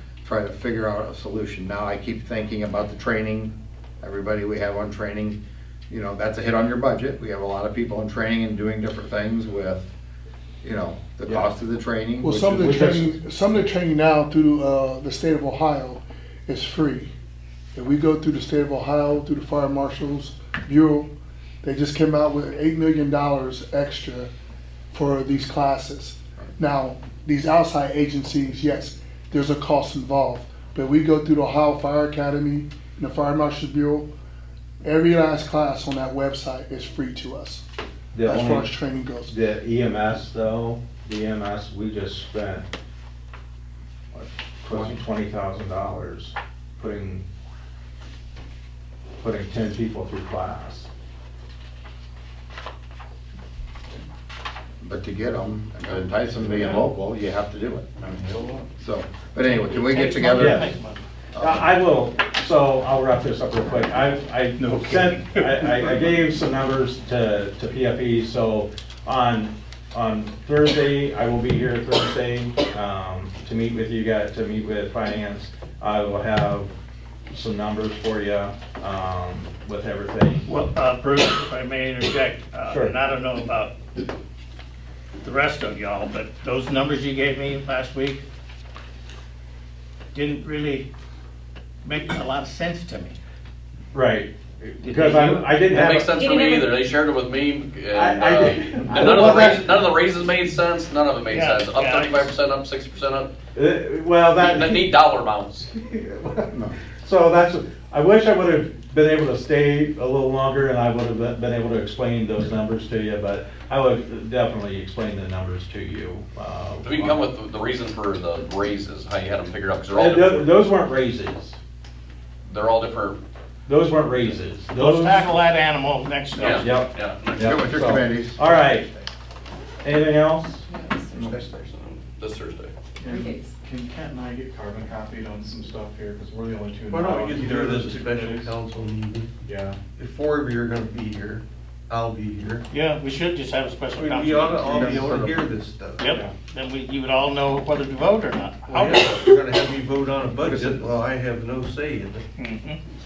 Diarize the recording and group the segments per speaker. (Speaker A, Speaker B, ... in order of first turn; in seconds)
Speaker A: 0.2-9.9, 10.6-12.9, 44.7-45.0, 54.8-60.7, 61.3-61.7, 127.3-128.4, 144.6-145.5, 150.4-151.0
Speaker B: 12.2-17.1, 17.7-21.1, 21.6-24.3, 24.9-34.1, 34.8-37.6, 38.2-39.4
Speaker C: 12.6-13.2, 38.1-42.7, 44.1-47.2, 49.2-50.9, 60.3-60.7, 61.4-76.7, 77.3-80.5, 82.7-82.9, 93.9-96.3, 97.9-99.8, 103.5-104.9, 105.7-117.2, 119.9-121.6, 123.7-125.4, 126.6-128.9, 129.8-130.6
Speaker D: 58.3-58.6, 133.0-138.6, 139.4-139.8
Speaker E: 59.4-61.0, 64.6-65.9, 80.5-84.0, 85.2-88.2, 90.1-90.9, 91.8-93.2, 94.8-95.5, 98.9-99.7, 101.3-102.3, 124.7-126.7, 142.7-145.2, 146.0-149.4, 152.4-152.8
Speaker F: 95.7-103.3, 104.4-105.7, 116.8-120.5, 122.5-123.2, 126.4-127.6, 131.7-132.7
Speaker G: 136.9-139.3, 139.9-142.6, 144.0-146.1, 148.7-152.2